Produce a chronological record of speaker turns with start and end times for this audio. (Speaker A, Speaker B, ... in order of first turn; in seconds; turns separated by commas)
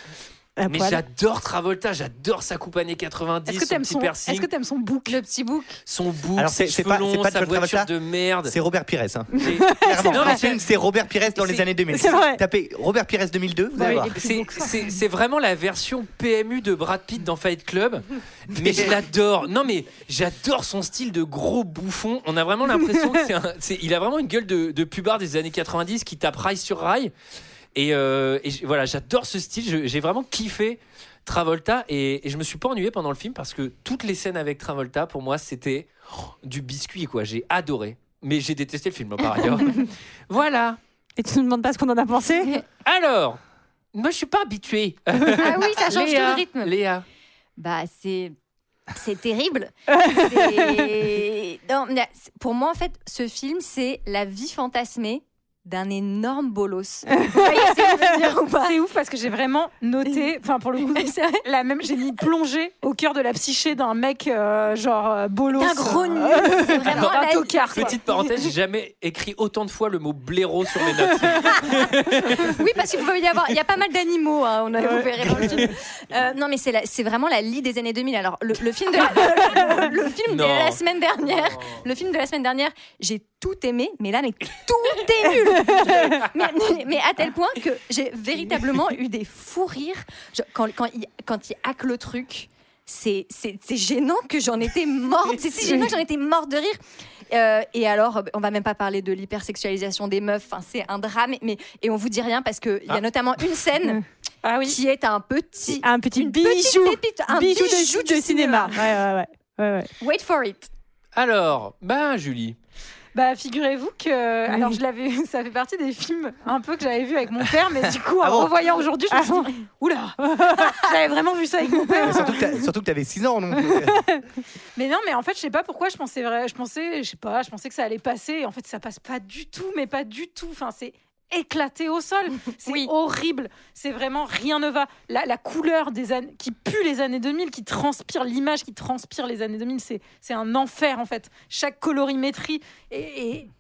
Speaker A: 0.6-1.0, Speaker B: 0.7-4.5, Speaker C: 3.5-5.2, Speaker D: 5.1-5.8, Speaker B: 5.8-8.6, Speaker E: 6.4-7.9, Speaker E: 8.4-14.1, Speaker B: 9.4-10.7, Speaker A: 9.7-10.4, Speaker A: 11.9-12.4, Speaker C: 13.8-15.0, Speaker B: 14.2-27.1, Speaker E: 18.6-18.9, Speaker B: 27.8-40.8, Speaker A: 41.2-42.6, Speaker B: 42.9-43.4, Speaker B: 43.9-47.0, Speaker D: 45.4-46.8, Speaker D: 47.6-48.3, Speaker D: 49.0-58.8, Speaker A: 50.0-50.7, Speaker C: 58.6-68.4, Speaker D: 61.0-61.4, Speaker D: 65.5-68.0, Speaker B: 66.9-67.2, Speaker B: 67.7-72.6, Speaker D: 72.4-96.8, Speaker A: 74.8-75.5, Speaker B: 75.4-75.7, Speaker B: 80.3-80.8, Speaker D: 97.3-104.0, Speaker C: 104.4-104.8, Speaker D: 104.7-108.7, Speaker A: 105.7-109.9, Speaker D: 110.0-110.7, Speaker B: 111.2-112.6, Speaker C: 113.1-122.6, Speaker E: 118.2-118.5, Speaker A: 119.1-119.5, Speaker A: 120.3-120.8, Speaker A: 121.9-122.1, Speaker E: 122.0-124.1, Speaker A: 123.6-124.0, Speaker C: 124.8-143.5, Speaker D: 132.6-132.9